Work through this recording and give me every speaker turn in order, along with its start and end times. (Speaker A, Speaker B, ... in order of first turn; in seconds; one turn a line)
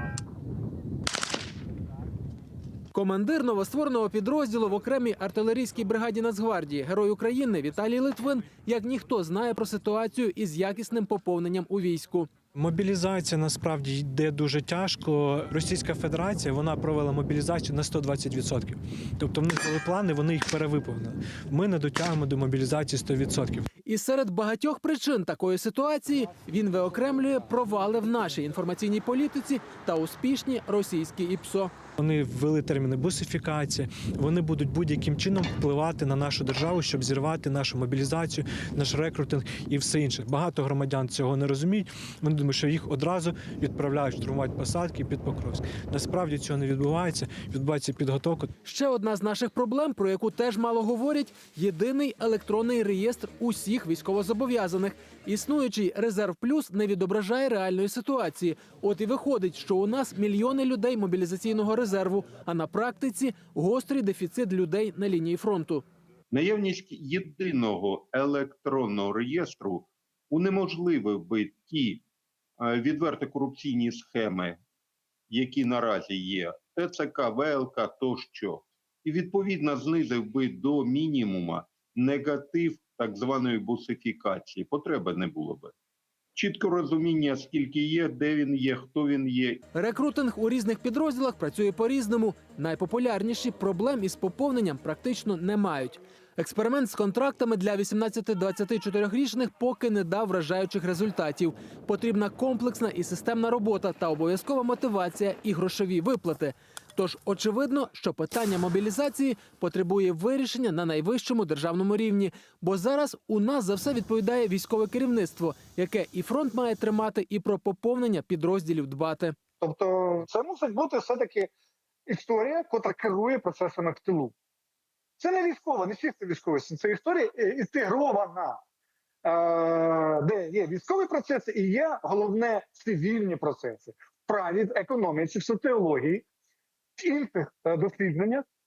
Speaker A: 3.0-12.3
Speaker B: 12.6-23.6
Speaker A: 23.9-31.7
Speaker B: 32.0-48.5
Speaker A: 48.7-65.8
Speaker C: 66.3-72.0
Speaker C: 72.6-74.6
Speaker C: 75.3-85.7
Speaker C: 86.3-89.6
Speaker A: 89.8-119.3
Speaker D: 119.6-121.5
Speaker D: 122.1-124.3
Speaker D: 125.2-128.6
Speaker D: 129.2-136.2
Speaker D: 137.0-138.4